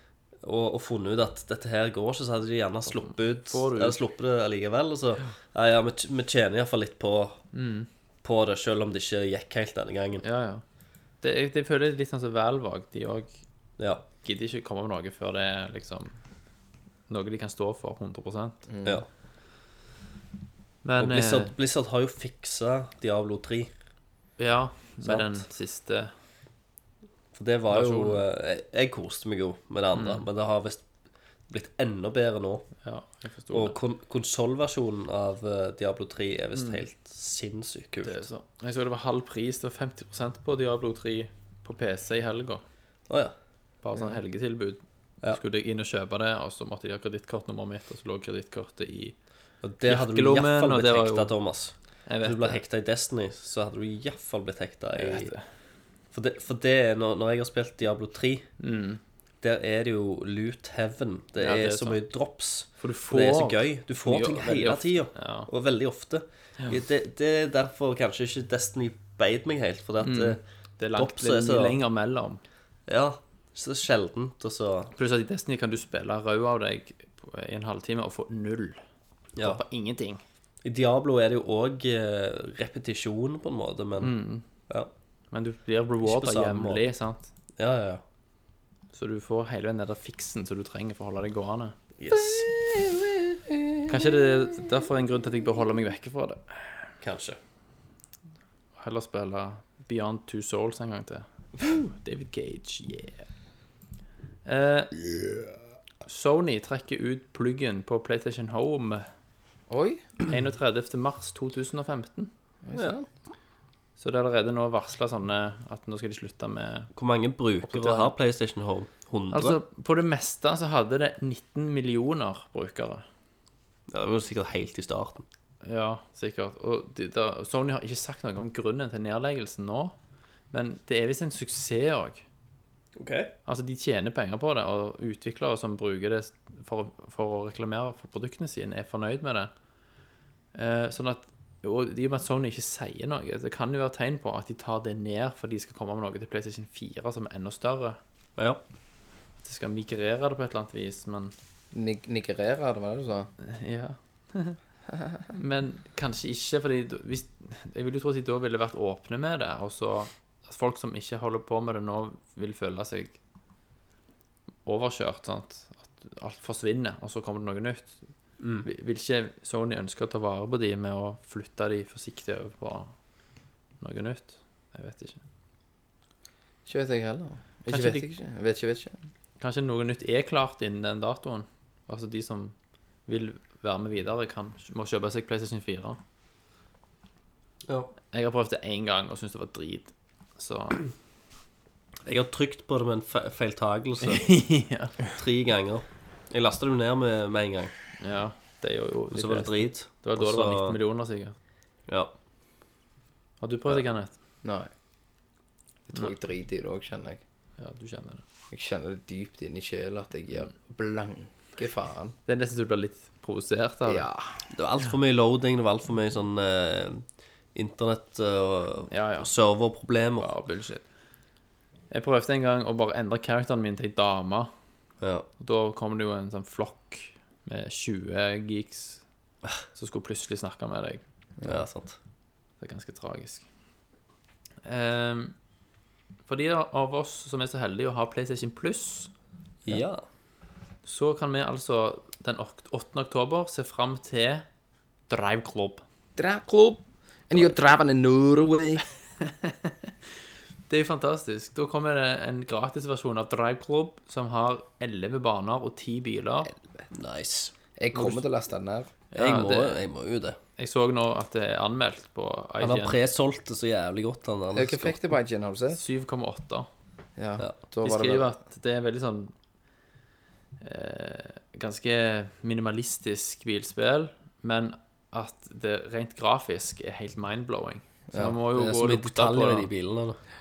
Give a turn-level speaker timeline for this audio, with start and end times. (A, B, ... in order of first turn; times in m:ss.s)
0:00.4-0:07.5 A
0:02.9-0:04.0 B
0:07.5-0:07.9 B
0:08.2-0:10.2 A
0:10.2-0:10.6 B
0:11.2-0:13.3 B
0:13.8-0:14.0 A
0:14.2-0:16.1 B
0:17.1-0:18.6 B
0:18.7-0:19.0 C
0:20.8-0:21.5 B
0:21.0-0:23.7 A
0:24.4-0:26.1 B
0:25.0-0:25.4 A
0:27.4-0:30.8 A
0:27.7-0:28.2 B
0:30.0-0:30.2 B
0:31.5-0:32.7 A
0:32.8-0:33.8 B
0:33.5-0:38.2 A
0:36.6-0:36.8 B
0:38.0-0:42.6 B
0:43.1-0:43.3 A
0:43.8-0:49.2 B
0:49.6-0:55.3 A
0:49.8-0:51.3 B
0:52.1-0:52.6 B
0:55.0-0:55.4 B
0:56.1-0:58.5 A
0:58.6-0:59.0 B
0:59.4-1:10.4 A
1:01.4-1:02.0 B
1:02.8-1:05.5 B
1:10.0-1:12.4 B
1:11.0-1:11.8 A
1:12.9-1:14.9 A
1:15.0-1:18.8 B
1:19.4-1:19.6 A
1:19.4-1:20.2 B
1:20.6-1:24.2 A
1:24.0-1:24.5 B
1:25.3-1:27.3 B
1:26.0-1:26.8 A
1:27.6-1:28.0 A
1:28.9-1:31.8 B
1:32.0-1:32.5 A
1:32.2-1:33.6 C
1:33.9-1:36.9 B
1:37.0-1:37.4 A
1:38.8-1:43.3 B
1:44.4-1:45.0 B
1:46.1-1:49.1 B
1:49.7-1:50.1 C
1:50.2-1:52.3 B
1:52.6-1:53.1 C
1:54.0-1:56.9 B
1:57.0-1:59.6 A
1:57.6-1:58.1 B
1:59.3-2:03.0 B
2:03.9-2:05.2 A
2:05.6-2:10.0 B
2:10.5-2:12.2 B
2:13.0-2:13.3 A
2:13.5-2:19.5 B
2:20.6-2:28.0 B
2:29.4-2:31.3 B
2:31.7-2:33.3 C
2:33.4-2:34.6 B
2:35.3-2:43.2 B
2:44.6-2:48.0 B
2:48.4-2:48.7 A
2:48.6-2:52.9 B
2:53.8-2:55.2 B
2:56.7-2:59.0 C
2:57.7-2:58.1 B
2:59.4-3:02.5 B
3:03.1-3:06.0 B
3:08.1-3:10.8 B
3:12.0-3:14.4 A
3:14.0-3:15.0 B
3:15.0-3:17.7 A
3:18.0-3:21.4 B
3:19.1-3:20.8 A
3:23.4-3:24.2 B
3:24.4-3:24.7 C
3:25.9-3:27.2 C
3:27.6-3:28.2 B
3:28.5-3:32.2 C
3:32.3-3:34.1 B
3:33.9-3:34.4 C
3:34.5-3:37.0 A
3:37.6-3:40.3 A
3:38.9-3:39.3 B
3:40.2-3:40.8 B
3:41.9-3:44.5 B
3:45.0-3:45.3 A
3:45.4-3:49.0 B
3:49.7-3:51.0 B
3:51.4-3:52.0 A
3:52.6-3:53.4 B
3:54.6-3:55.4 B
3:56.3-3:59.1 B
3:59.7-4:00.0 A
4:00.8-4:04.5 B
4:05.1-4:05.8 B
4:06.2-4:08.8 C
4:09.2-4:09.9 B
4:10.7-4:16.5 B
4:16.5-4:16.9 C
4:16.9-4:18.2 A
4:17.8-4:19.0 C
4:19.1-4:19.8 B
4:19.2-4:20.4 A
4:20.6-4:23.0 B
4:22.6-4:25.0 A
4:24.5-4:25.8 C
4:25.7-4:26.7 B
4:27.2-4:28.4 C
4:27.8-4:29.3 B
4:30.6-4:39.7 B
4:38.1-4:38.4 C
4:38.2-4:40.2 A